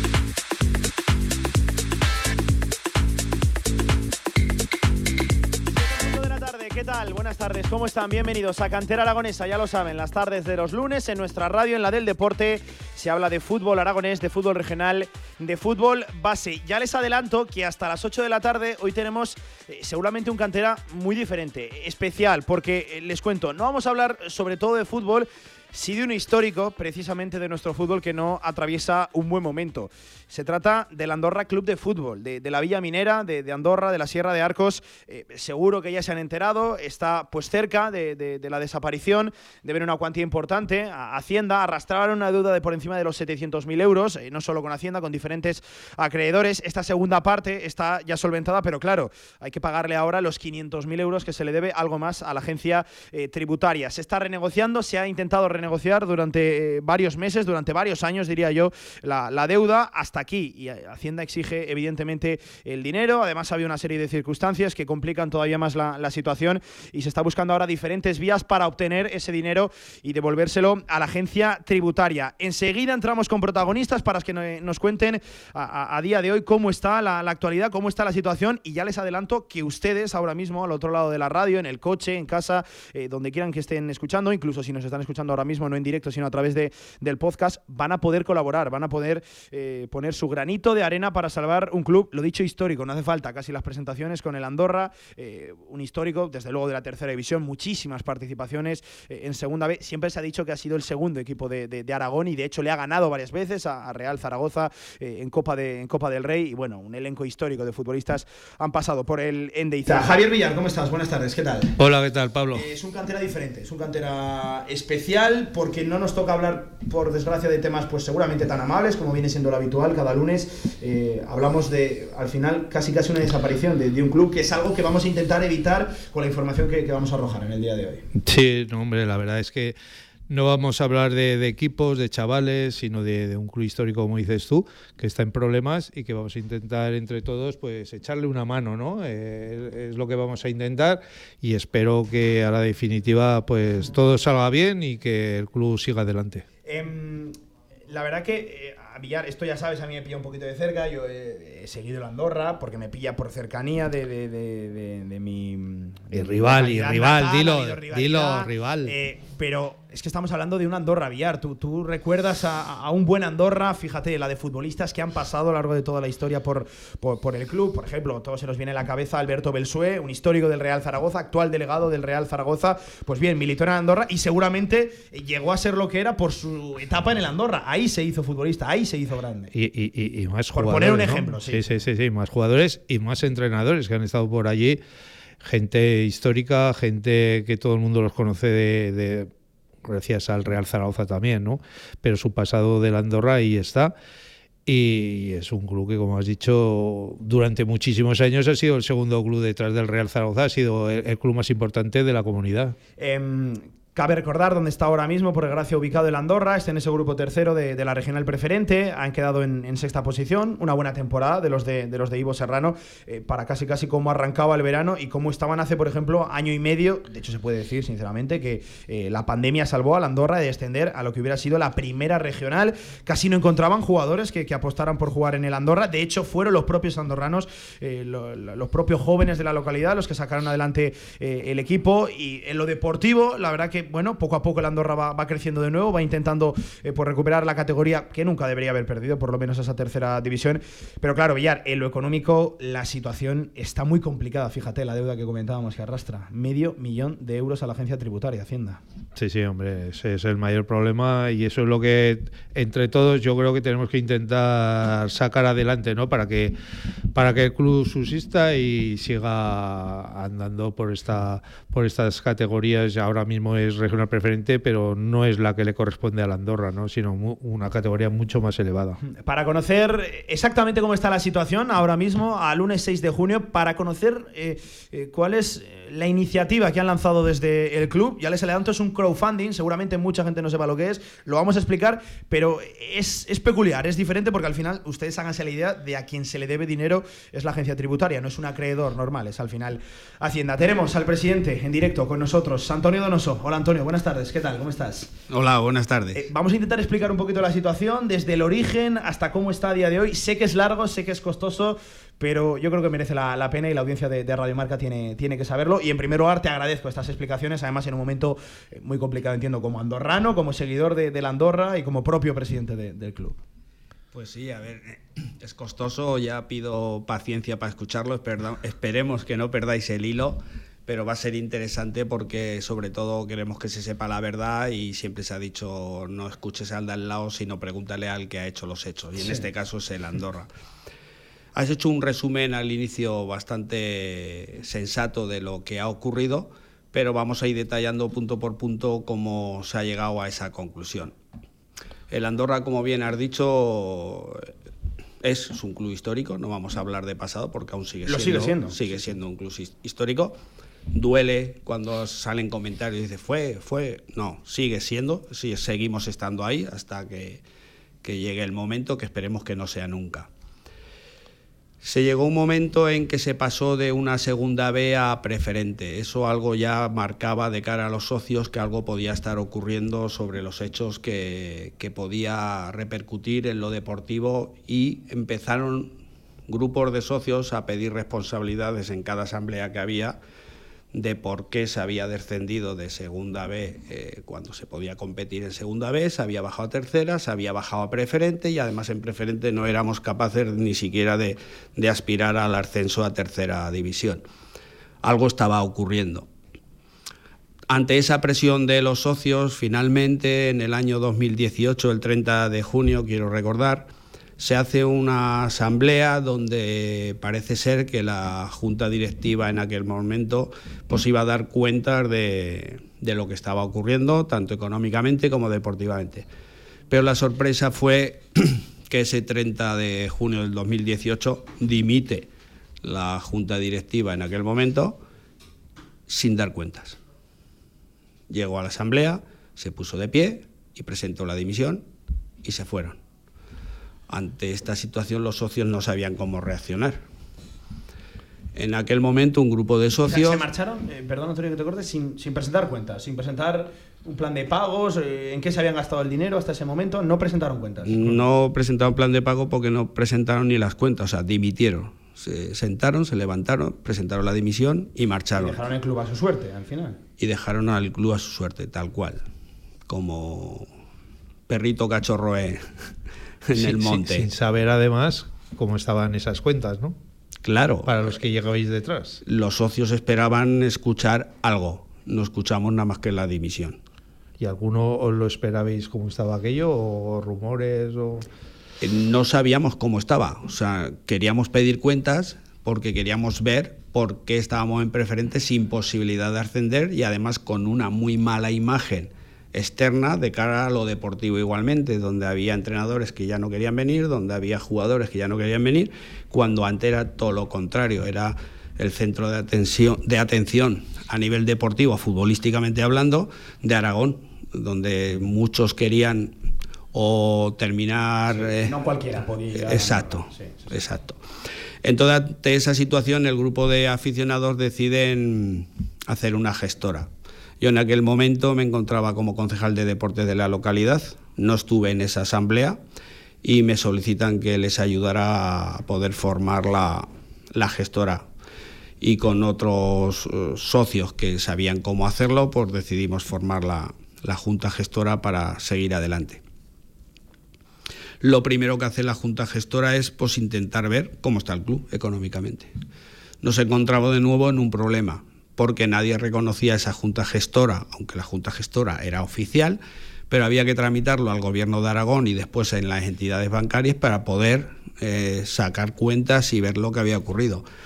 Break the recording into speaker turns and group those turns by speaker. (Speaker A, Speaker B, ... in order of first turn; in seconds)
Speaker A: 5.8-111.8, 112.5-128.0, 146.7-147.3, 147.9-179.5, 180.5-181.6, 203.0-248.8, 269.1-295.1, 296.1-313.4, 348.0-348.7, 440.0-448.2, 455.4-457.0, 508.3-510.6
Speaker B: 111.8-112.7, 128.2-129.7, 130.3-146.4, 156.1-158.9, 179.5-184.8, 185.4-189.3, 189.8-193.9, 194.7-202.8, 249.2-256.5, 257.1-269.0, 463.5-466.9, 467.8-469.2, 474.4-478.2
Speaker C: 295.3-296.2, 314.1-330.5, 331.5-341.1, 342.1-344.5, 345.2-350.4, 350.9-357.4, 358.0-360.3, 361.8-375.9, 376.5-380.2, 380.9-394.2, 395.0-396.3, 397.7-416.3, 416.9-422.3, 422.8-425.0, 426.1-427.0, 428.3-431.9, 432.4-433.0, 434.1-437.0, 438.6-440.4, 447.8-455.6, 457.2-459.2, 459.9-460.7, 461.5-462.6, 463.4-464.3, 467.4-468.1, 469.2-473.8, 478.8-506.4, 506.9-508.8, 509.5-511.2, 511.8-522.8, 523.4-528.3, 529.0-536.4, 538.2-542.7, 543.4-557.6